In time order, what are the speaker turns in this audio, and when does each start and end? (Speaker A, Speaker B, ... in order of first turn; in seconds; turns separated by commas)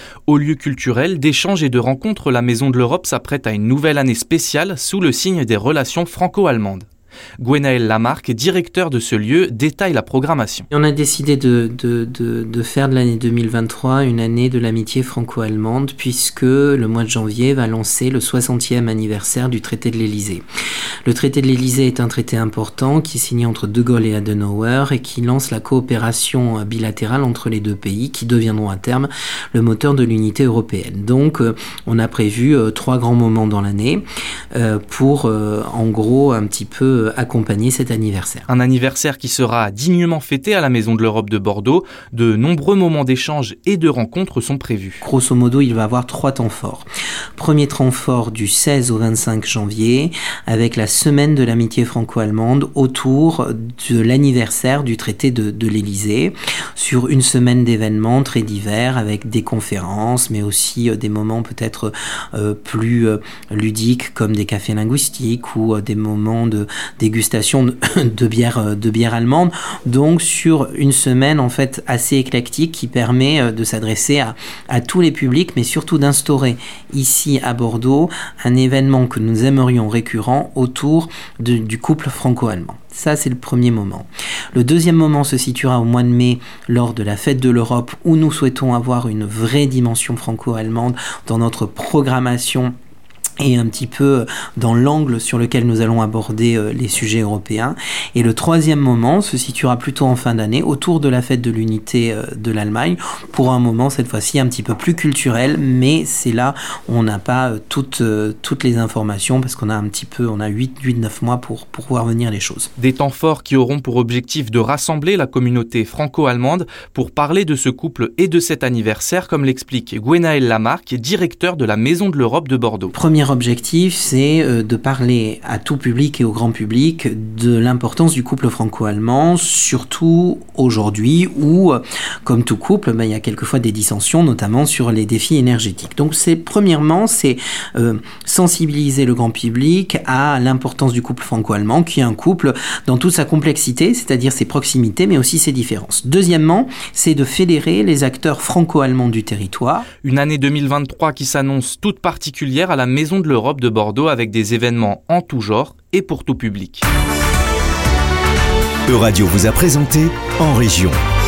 Speaker A: 0.3-6.9, Speaker A: 7.4-10.7, Speaker B: 10.7-20.4, Speaker B: 21.1-38.5, Speaker A: 38.5-45.0, Speaker B: 45.0-46.8, Speaker B: 47.4-92.7, Speaker B: 93.4-112.7, Speaker A: 112.8-122.9, Speaker B: 122.9-149.9, Speaker A: 150.0-156.8, Speaker C: 158.9-160.9